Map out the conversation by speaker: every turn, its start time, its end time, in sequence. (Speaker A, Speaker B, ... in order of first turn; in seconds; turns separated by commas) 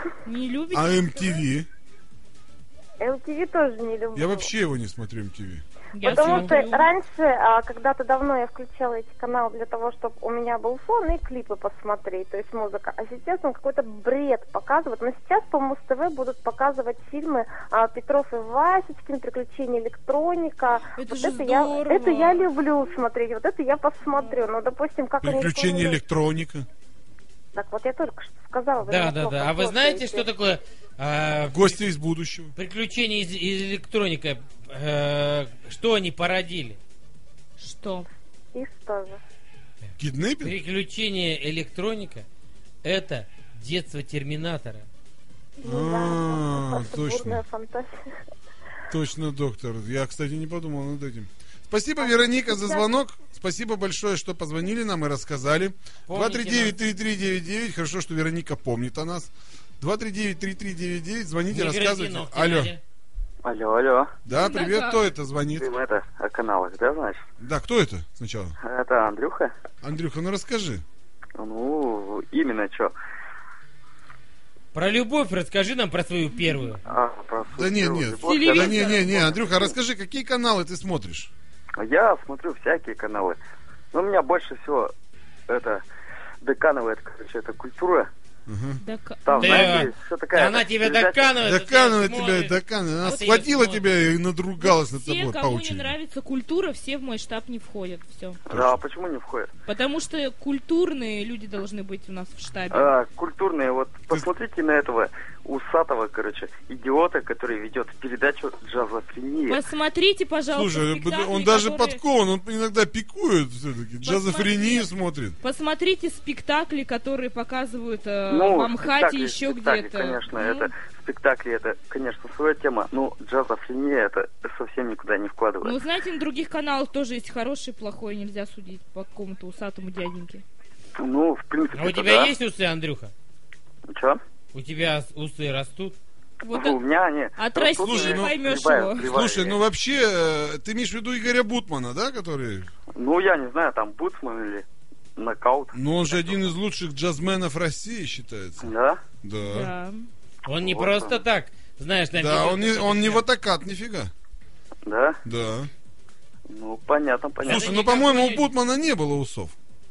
Speaker A: 0.3-1.4, Speaker B: 0.7-1.7, Speaker C: 3.0-4.5, Speaker B: 4.2-5.7, Speaker A: 6.0-6.9, Speaker C: 6.0-26.0, Speaker D: 6.0-6.5, Speaker A: 21.0-22.5, Speaker B: 25.2-26.7, Speaker C: 27.6-30.3, Speaker D: 28.8-31.9, Speaker B: 31.5-32.5, Speaker D: 32.6-36.8, Speaker A: 37.6-38.1, Speaker C: 38.5-39.2, Speaker D: 39.9-42.3, Speaker B: 40.0-40.5, Speaker D: 42.8-44.9, Speaker C: 45.6-47.9, Speaker B: 45.6-47.4, Speaker B: 48.9-62.7, Speaker C: 52.0-52.9, Speaker D: 56.1-56.8, Speaker D: 61.5-62.8, Speaker E: 63.4-64.2, Speaker B: 64.2-65.7, Speaker A: 64.3-65.0, Speaker E: 65.5-67.3, Speaker B: 67.4-68.6, Speaker E: 68.6-69.5, Speaker B: 69.8-70.8, Speaker E: 71.4-72.9, Speaker D: 74.7-76.8, Speaker E: 76.9-79.8, Speaker B: 77.5-81.3, Speaker A: 78.2-79.2, Speaker E: 81.8-83.4, Speaker E: 83.9-84.9, Speaker E: 85.5-85.8, Speaker E: 86.4-88.1, Speaker B: 88.5-88.8, Speaker A: 88.8-89.9, Speaker E: 89.2-91.3, Speaker D: 89.3-93.9, Speaker B: 91.4-96.0, Speaker A: 94.6-98.4, Speaker E: 98.5-99.5, Speaker B: 98.5-98.8, Speaker A: 99.7-102.9, Speaker E: 102.7-109.6, Speaker A: 109.5-112.0, Speaker B: 110.5-115.4, Speaker A: 114.0-114.9, Speaker A: 115.4-120.7, Speaker E: 118.3-125.8, Speaker A: 125.6-130.4, Speaker E: 131.0-132.3, Speaker D: 131.8-133.1, Speaker E: 133.9-134.2, Speaker D: 134.5-136.0, Speaker A: 136.5-136.8, Speaker E: 136.5-139.6, Speaker A: 137.4-139.1, Speaker B: 137.8-138.5, Speaker B: 139.0-142.7, Speaker E: 143.0-144.7, Speaker E: 145.2-146.5, Speaker B: 145.7-148.7, Speaker E: 148.6-149.0, Speaker B: 149.2-149.7, Speaker A: 149.5-150.1, Speaker D: 150.4-153.2, Speaker E: 150.6-151.2, Speaker B: 152.2-154.1, Speaker E: 154.9-155.2, Speaker B: 155.2-155.7, Speaker E: 156.5-157.8, Speaker B: 157.4-159.6, Speaker D: 157.4-158.5